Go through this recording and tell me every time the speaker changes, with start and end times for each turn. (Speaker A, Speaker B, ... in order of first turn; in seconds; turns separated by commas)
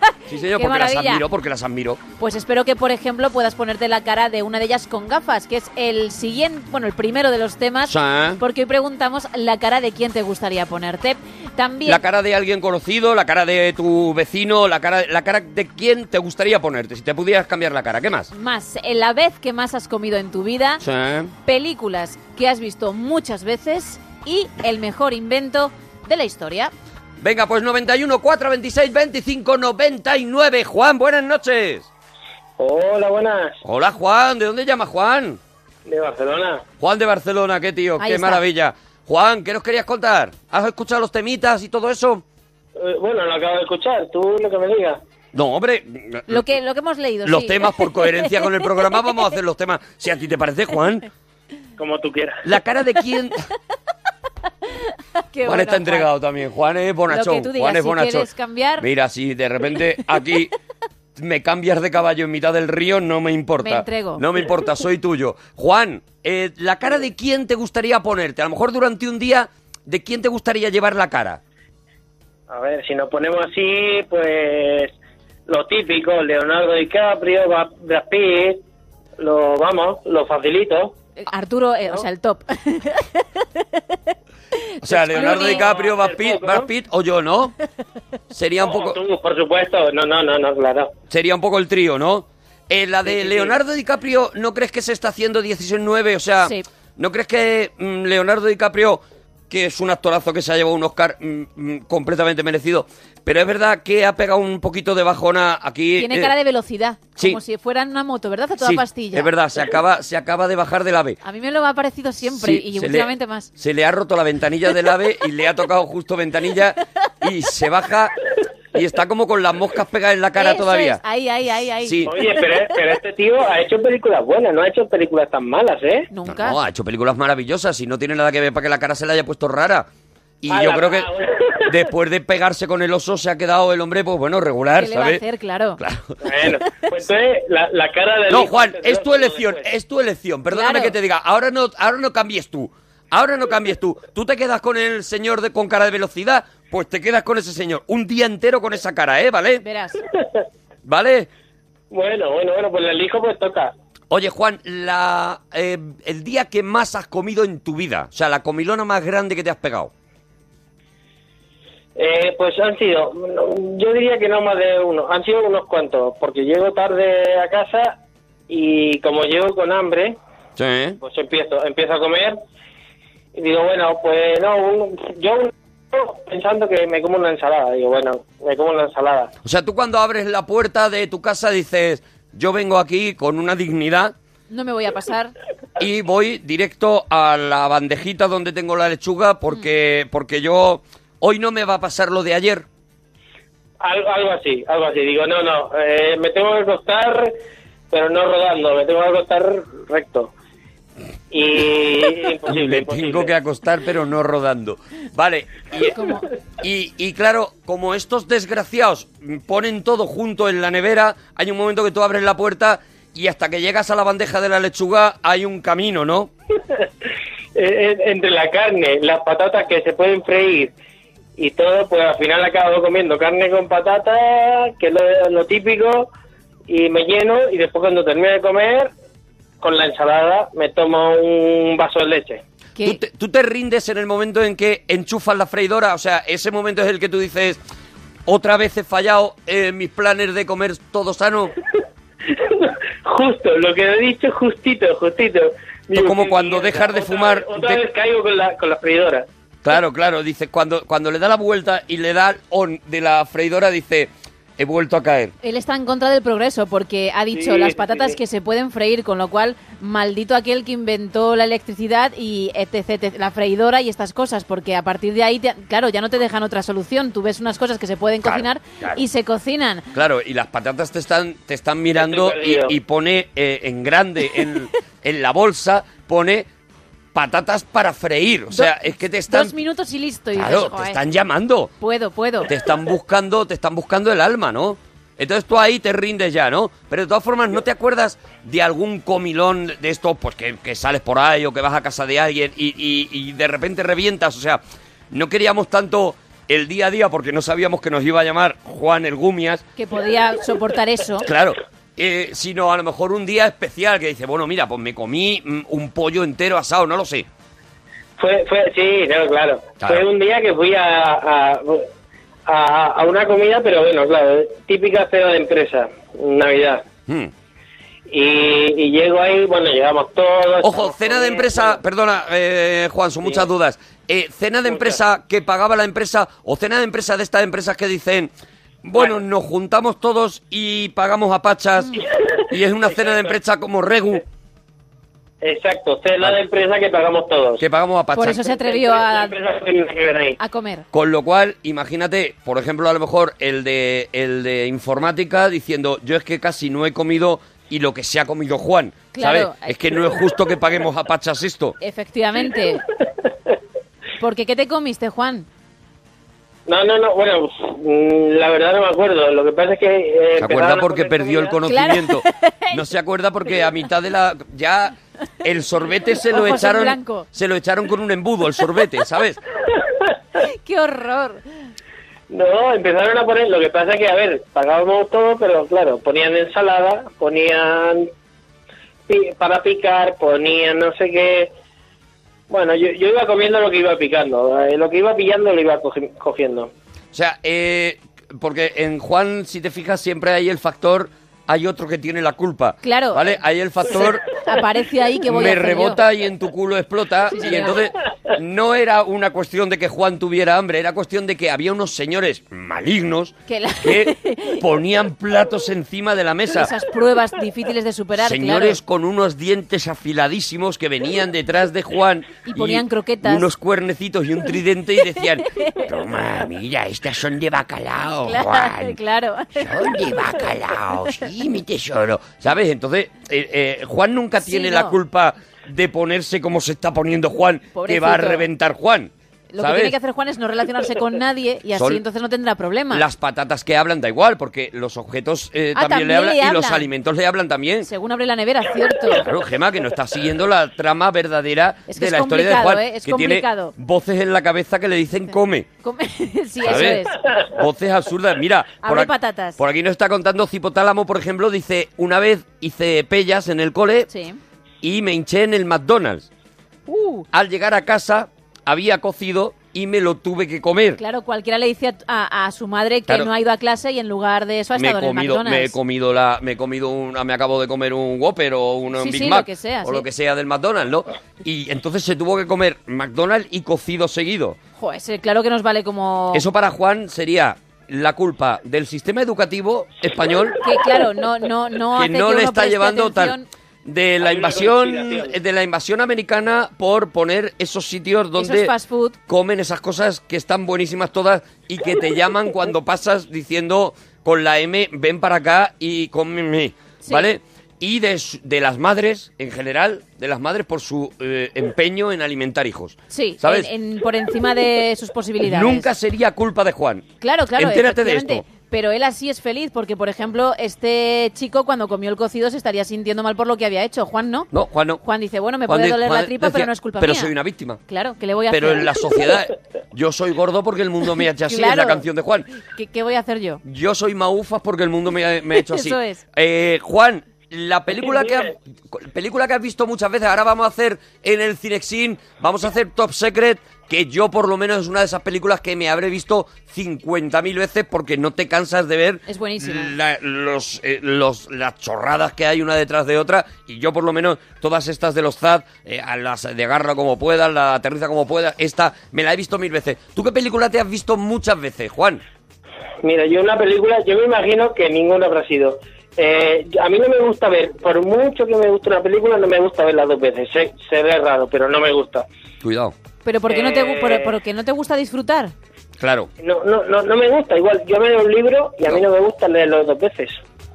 Speaker A: 0.3-2.0, Speaker B: 0.6-1.2, Speaker B: 2.2-12.0, Speaker A: 7.8-8.4, Speaker A: 11.8-18.3, Speaker B: 18.3-20.8, Speaker A: 20.8-21.3, Speaker B: 21.4-26.7, Speaker A: 27.2-31.9, Speaker C: 32.6-33.5, Speaker A: 33.6-35.4, Speaker C: 35.9-36.6, Speaker A: 36.8-42.2, Speaker B: 38.0-38.4, Speaker C: 42.8-45.0, Speaker A: 45.3-46.4, Speaker B: 46.3-49.0, Speaker A: 47.2-51.1, Speaker C: 51.8-52.4, Speaker A: 52.4-53.4, Speaker B: 55.2-56.1, Speaker A: 55.4-60.5, Speaker B: 57.1-58.9, Speaker A: 61.1-71.4, Speaker B: 63.6-64.2, Speaker C: 72.5-74.9, Speaker C: 75.5-78.6, Speaker C: 79.2-81.0, Speaker B: 81.2-83.6, Speaker B: 84.8-85.7, Speaker A: 84.8-87.5, Speaker C: 85.4-86.7, Speaker A: 88.3-89.0, Speaker C: 88.6-90.9, Speaker A: 91.1-106.3, Speaker C: 93.1-93.5, Speaker B: 106.0-109.3, Speaker A: 108.6-111.2, Speaker B: 111.2-113.5, Speaker A: 112.3-118.2, Speaker A: 118.7-121.0, Speaker B: 120.3-122.1, Speaker A: 121.8-122.1, Speaker C: 122.1-126.1, Speaker B: 126.1-126.6, Speaker A: 126.3-129.9, Speaker A: 130.4-131.1, Speaker C: 130.5-131.8, Speaker A: 131.7-135.2, Speaker B: 134.8-135.8, Speaker A: 135.8-136.5, Speaker C: 136.2-139.7, Speaker A: 138.3-149.6, Speaker B: 140.5-140.9, Speaker B: 149.6-150.0, Speaker A: 150.8-151.3, Speaker C: 151.9-153.7, Speaker A: 154.1-159.9, Speaker C: 161.9-167.9, Speaker C: 168.5-170.2, Speaker A: 170.6-171.0, Speaker C: 171.0-172.4, Speaker C: 173.3-179.3, Speaker A: 179.4-184.1, Speaker B: 184.5-185.3, Speaker A: 185.8-192.7, Speaker C: 193.8-197.3, Speaker C: 197.9-200.3, Speaker C: 201.3-203.3, Speaker A: 202.4-205.9, Speaker B: 205.9-206.3, Speaker A: 206.6-216.3, Speaker C: 217.5-220.7, Speaker C: 221.4-226.1, Speaker C: 226.7-228.9, Speaker C: 229.6-232.4, Speaker A: 232.8-237.6, Speaker A: 238.2-241.5, Speaker C: 242.3-249.3, Speaker A: 245.9-247.8, Speaker A: 249.6-255.3, Speaker B: 255.4-269.9, Speaker C: 257.3-258.2, Speaker A: 268.2-269.0, Speaker A: 269.9-276.5, Speaker C: 271.9-272.7, Speaker A: 277.1-279.5, Speaker B: 279.3-281.0, Speaker A: 280.3-281.7, Speaker B: 281.8-282.5, Speaker A: 282.4-294.6, Speaker A: 295.1-299.6, Speaker B: 299.8-301.3, Speaker A: 301.2-307.3, Speaker C: 308.2-311.9, Speaker C: 312.4-316.8, Speaker A: 317.1-317.3, Speaker C: 318.1-321.8, Speaker A: 320.6-328.3, Speaker C: 324.7-325.0, Speaker A: 328.8-334.2, Speaker C: 333.0-333.3, Speaker C: 335.4-337.6, Speaker A: 337.6-338.5, Speaker B: 338.1-339.3, Speaker C: 338.5-340.4, Speaker B: 340.4-340.9, Speaker A: 340.9-351.8, Speaker B: 349.1-350.0, Speaker B: 351.8-352.8, Speaker B: 354.2-355.5, Speaker C: 356.7-361.5, Speaker A: 360.4-369.4, Speaker B: 361.6-362.8, Speaker B: 366.3-367.3, Speaker B: 370.5-371.4, Speaker C: 372.3-378.1, Speaker C: 379.1-381.5, Speaker C: 382.5-386.7, Speaker A: 387.1-394.3, Speaker B: 392.8-396.0, Speaker A: 395.2-406.7, Speaker B: 397.3-397.8, Speaker B: 403.5-404.6, Speaker B: 406.5-408.8, Speaker A: 408.1-419.0, Speaker B: 412.4-413.4, Speaker B: 415.6-415.8, Speaker B: 418.3-419.9, Speaker A: 419.6-429.9, Speaker B: 424.4-424.9, Speaker B: 427.7-428.4, Speaker B: 429.5-433.0, Speaker A: 431.7-432.0, Speaker A: 432.9-437.9, Speaker B: 435.7-436.9, Speaker B: 437.9-439.2, Speaker A: 439.1-445.7, Speaker B: 441.9-443.7, Speaker B: 445.8-447.2, Speaker A: 446.6-447.0, Speaker A: 447.5-454.1, Speaker B: 448.8-449.6, Speaker B: 454.1-454.4, Speaker A: 454.8-456.3, Speaker B: 456.9-457.2, Speaker A: 457.3-461.0, Speaker B: 461.0-465.8, Speaker A: 464.7-474.6, Speaker B: 468.9-470.1, Speaker B: 474.8-476.4, Speaker A: 476.3-480.6, Speaker B: 480.6-483.5, Speaker A: 481.9-488.7, Speaker C: 484.2-485.3, Speaker B: 488.4-489.2, Speaker A: 489.3-503.7, Speaker B: 497.0-497.3, Speaker B: 503.1-505.9, Speaker A: 505.4-508.4, Speaker B: 507.2-514.5, Speaker A: 514.5-515.0, Speaker B: 515.0-517.4, Speaker A: 515.7-517.8, Speaker B: 517.9-519.0, Speaker A: 518.5-522.5, Speaker B: 521.4-522.0, Speaker B: 522.7-523.6, Speaker A: 523.6-552.2, Speaker B: 525.5-526.2, Speaker C: 528.0-528.5, Speaker B: 539.3-539.9, Speaker C: 553.0-562.2, Speaker A: 562.6-562.9, Speaker B: 563.2-565.5, Speaker C: 563.5-564.3, Speaker A: 566.0-566.3, Speaker C: 566.4-570.4